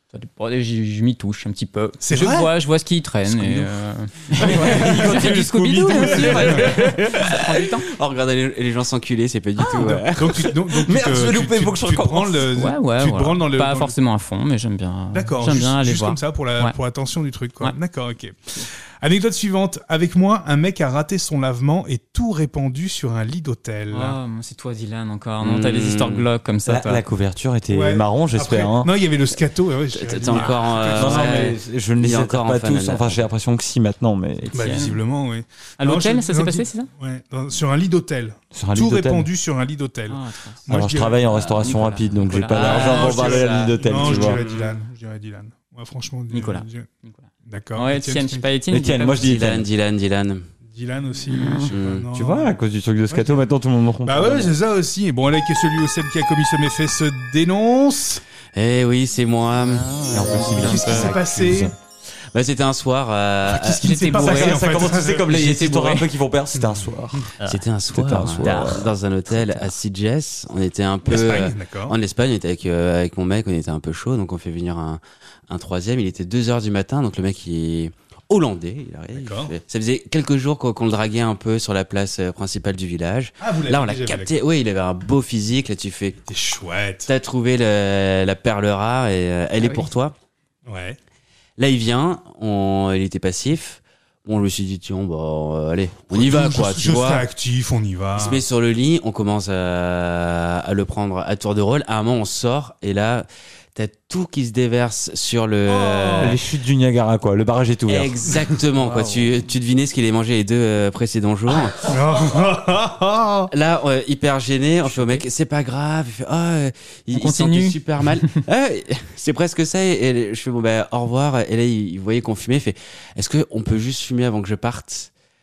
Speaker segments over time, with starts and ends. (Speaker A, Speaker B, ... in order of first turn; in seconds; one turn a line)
Speaker A: 0.1-7.9
Speaker B: 2.0-2.5
Speaker C: 4.3-7.5
Speaker D: 4.6-4.9
Speaker D: 7.2-10.5
Speaker B: 9.8-13.9
Speaker C: 10.8-12.5
Speaker A: 12.5-16.8
Speaker B: 15.1-24.2
Speaker A: 23.9-27.0
Speaker D: 25.4-26.3
Speaker C: 26.7-28.9
Speaker B: 27.7-31.5
Speaker D: 29.9-33.2
Speaker C: 30.9-34.9
Speaker B: 34.5-41.2
Speaker A: 34.5-35.0
Speaker A: 35.8-36.9
Speaker C: 38.5-39.3
Speaker A: 40.1-40.6
Speaker C: 40.7-44.4
Speaker D: 41.3-41.8
Speaker A: 41.5-43.8
Speaker B: 42.5-46.9
Speaker D: 44.0-44.8
Speaker A: 46.3-49.4
Speaker B: 47.5-48.5
Speaker C: 48.7-49.7
Speaker D: 49.1-50.5
Speaker B: 50.7-52.5
Speaker A: 51.3-51.7
Speaker D: 51.7-52.1
Speaker C: 52.1-54.5
Speaker B: 53.1-53.5
Speaker B: 54.0-58.2
Speaker D: 58.5-60.0
Speaker A: 59.6-61.2
Speaker C: 60.1-61.7
Speaker B: 60.6-61.7
Speaker D: 62.3-64.6
Speaker B: 63.5-65.3
Speaker A: 63.8-66.1
Speaker C: 64.1-67.3
Speaker B: 66.5-67.2
Speaker D: 67.5-86.2
Speaker C: 67.9-69.0
Speaker A: 68.4-69.7
Speaker B: 71.0-72.0
Speaker B: 79.1-79.5
Speaker B: 83.4-84.3
Speaker B: 86.3-87.1
Speaker D: 87.1-90.2
Speaker A: 89.6-89.9
Speaker B: 90.7-91.0
Speaker D: 91.6-97.3
Speaker B: 96.1-98.4
Speaker D: 98.2-106.4
Speaker B: 105.7-106.4
Speaker C: 106.2-108.1
Speaker D: 107.9-111.9
Speaker A: 108.8-109.3
Speaker B: 111.8-113.5
Speaker D: 113.5-125.1
Speaker A: 114.9-115.2
Speaker A: 117.1-117.8